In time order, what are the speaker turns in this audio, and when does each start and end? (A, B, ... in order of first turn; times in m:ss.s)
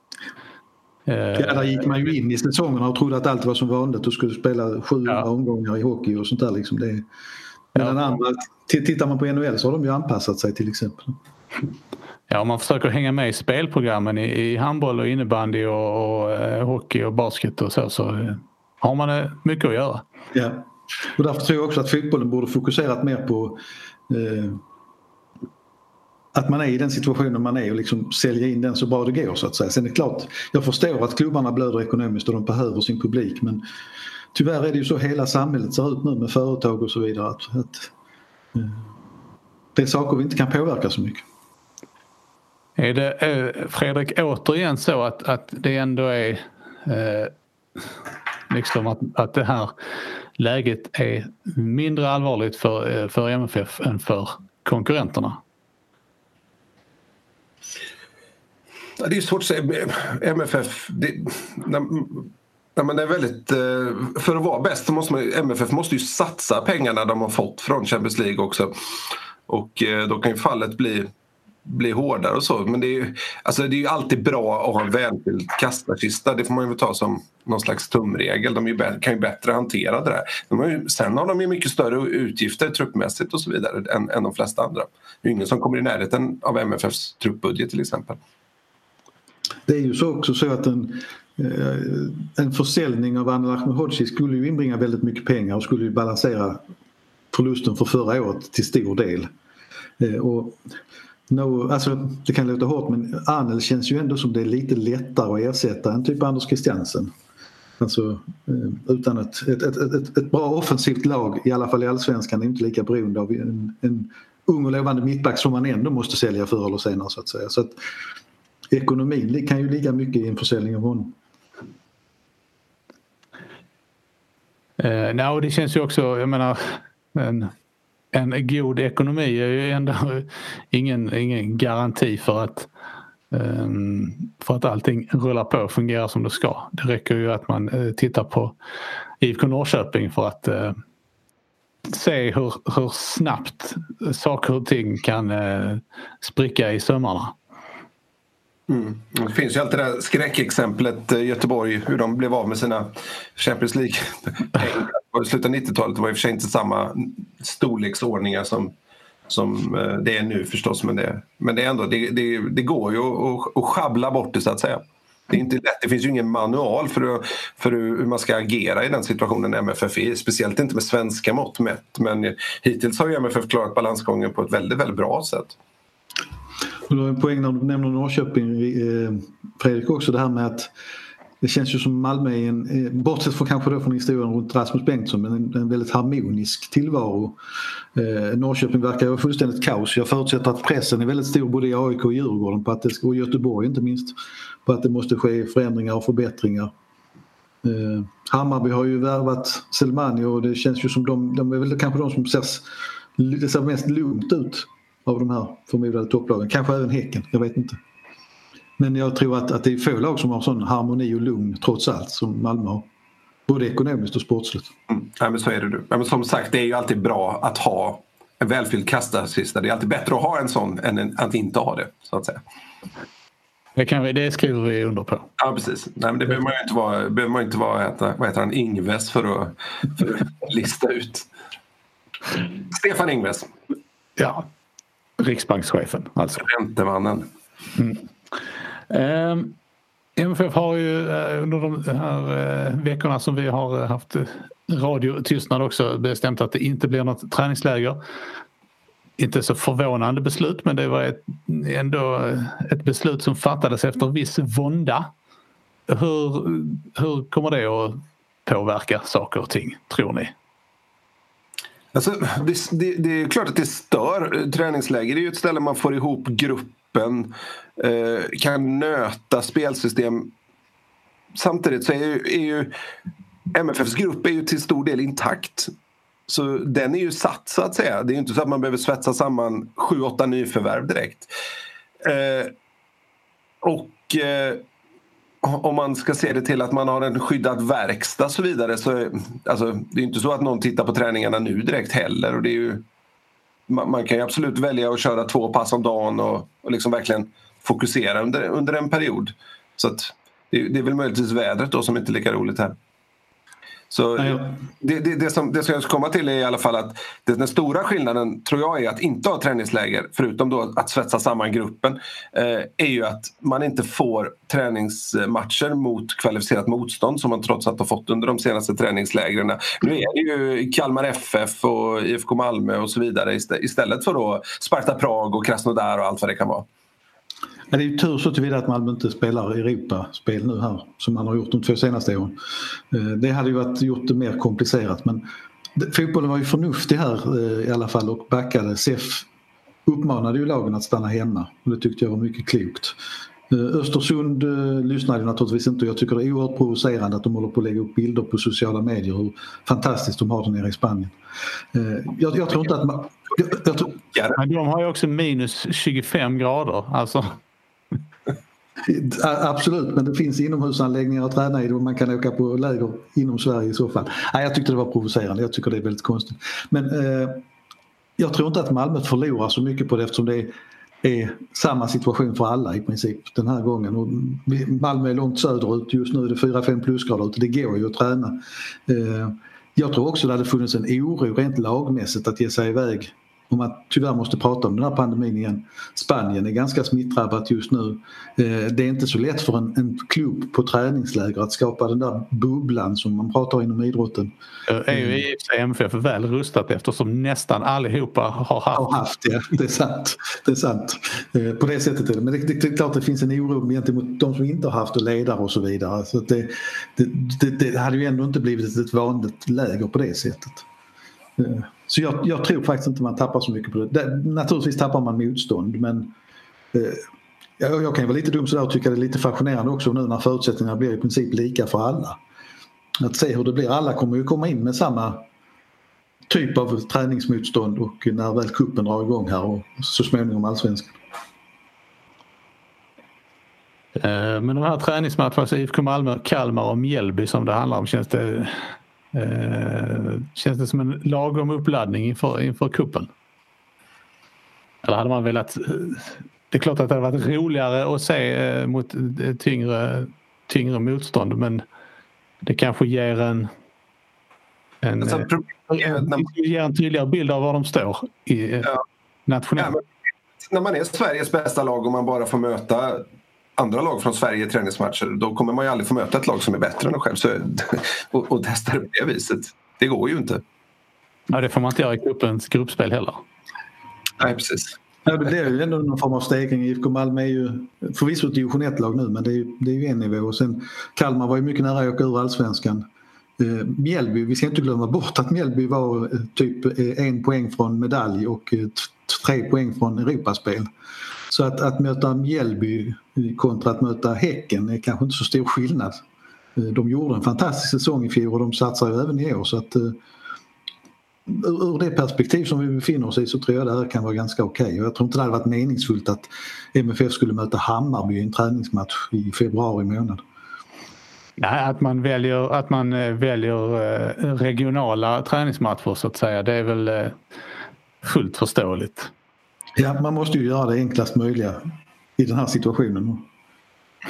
0:01.1-0:01.8 A
0:01.4-0:07.1 B
0:07.7-0:11.2 B
0:07.8-0:08.2 A
0:12.3-0:20.0 A
0:20.3-0:24.6 B
0:26.3-0:33.6 B
0:34.3-0:37.9 B
0:38.6-0:38.8 B
0:39.8-0:41.2 B
0:42.8-0:47.3 A
0:48.5-0:49.7 A
0:50.4-0:55.4 A
0:59.0-1:08.7 C
1:09.5-1:11.1 C
1:11.7-1:28.2 C
1:29.7-1:36.6 B
1:37.3-1:39.3 B
1:40.0-1:40.6 B
1:41.3-1:47.1 B
1:47.8-1:57.8 B
1:58.7-2:01.2 B
2:04.8-2:07.5 A
2:08.1-2:12.7 A
2:13.3-2:18.6 A
2:19.2-2:20.8 A
2:21.9-2:27.4 A
2:28.7-2:38.7 C
2:39.3-2:55.6 C
2:56.9-3:00.7 B
3:01.4-3:07.4 B
3:08.0-3:16.7 B
3:17.6-3:22.7 B
3:23.2-3:27.8 B
3:28.8-3:32.9 B
3:33.5-3:34.7 B
3:34.9-3:42.4 C
3:43.8-3:45.3 A
3:45.4-3:51.3 C
3:52.7-3:53.5 C
3:54.2-3:54.5 A
3:55.2-3:56.5 A
3:56.4-3:57.3 C
3:58.9-3:59.6 A
4:00.2-4:08.0 A
4:09.2-4:15.1 A
4:15.9-4:20.3 A
4:21.9-4:30.3 C
4:31.4-4:32.7 C
4:33.5-4:35.7 C
4:36.3-4:41.3 C
4:42.0-4:42.5 C
4:43.6-4:44.6 C
4:45.4-4:52.8 C
4:53.7-5:02.8 C
5:03.9-5:26.7 C
5:27.7-5:32.4 B
5:32.9-5:35.2 B
5:35.8-5:39.3 B
5:39.9-5:43.0 B
5:43.5-5:51.2 B
5:51.7-5:54.0 B
5:54.4-5:57.4 A
5:58.8-6:07.4 B
6:08.2-6:34.3 B
6:34.7-6:38.9 A
6:34.9-6:35.2 B
6:38.7-6:50.6 B
6:51.4-6:56.1 B
6:56.7-6:57.1 B
6:57.6-7:02.2 B
7:03.0-7:05.2 B
7:06.3-7:11.0 B
7:14.0-7:23.1 A
7:24.8-7:31.6 A
7:32.4-7:33.5 A
7:34.8-7:38.7 A
7:35.0-7:36.3 C
7:39.3-7:39.7 A
7:40.5-7:43.0 C
7:43.6-7:50.4 C
7:51.3-7:53.2 A
7:54.2-7:54.8 C
7:55.0-8:02.8 B
8:03.4-8:10.7 B
8:11.3-8:16.0 B
8:16.6-8:20.0 B
8:21.3-8:30.2 B
8:31.4-8:37.2 A
8:38.0-8:39.1 A
8:39.8-8:41.6 B
8:42.2-8:43.2 B